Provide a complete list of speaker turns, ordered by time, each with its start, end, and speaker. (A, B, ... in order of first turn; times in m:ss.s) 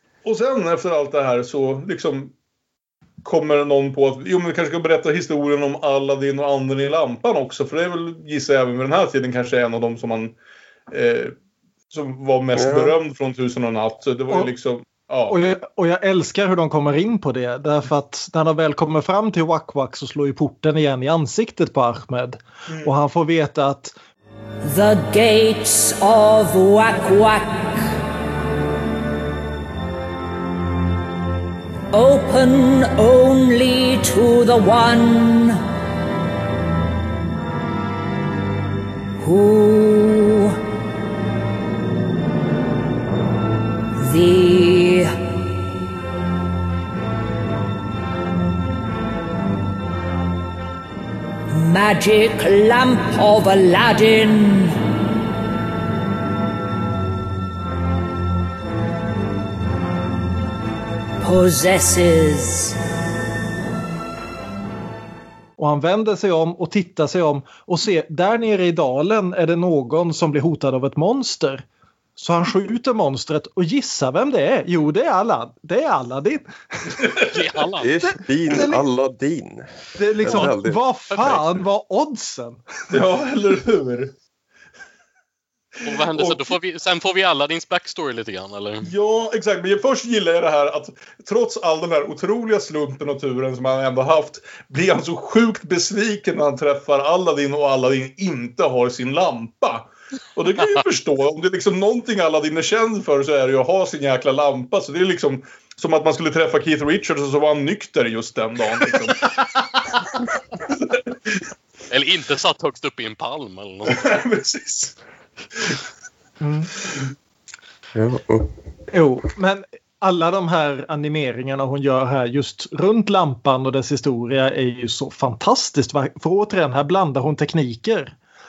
0:00.2-0:02.3 A
0:03.2-0:10.3 A
0:10.9-0:11.3 A
0:11.9-0:15.4 A
0:12.5-0:13.0 B
0:15.3-0:23.9 C
0:22.7-0:22.9 A
0:24.6-0:27.8 D
0:31.9-0:35.6 D
0:39.2-0:40.6 D
0:44.0-0:45.2 D
0:51.5-0:54.8 D
1:01.2-1:02.7 D
1:05.6-1:11.6 C
1:12.2-1:16.5 C
1:17.3-1:17.9 E
1:17.8-1:21.4 B
1:18.0-1:18.8 C
1:19.9-1:22.6 C
1:22.9-1:24.1 A
1:25.8-1:28.9 E
1:25.9-1:26.5 A
1:28.8-1:49.4 A
1:50.6-1:51.1 A
1:51.9-1:54.0 E
1:53.9-1:55.0 A
1:56.4-1:56.7 C
1:57.9-1:58.5 B
1:58.9-2:08.1 C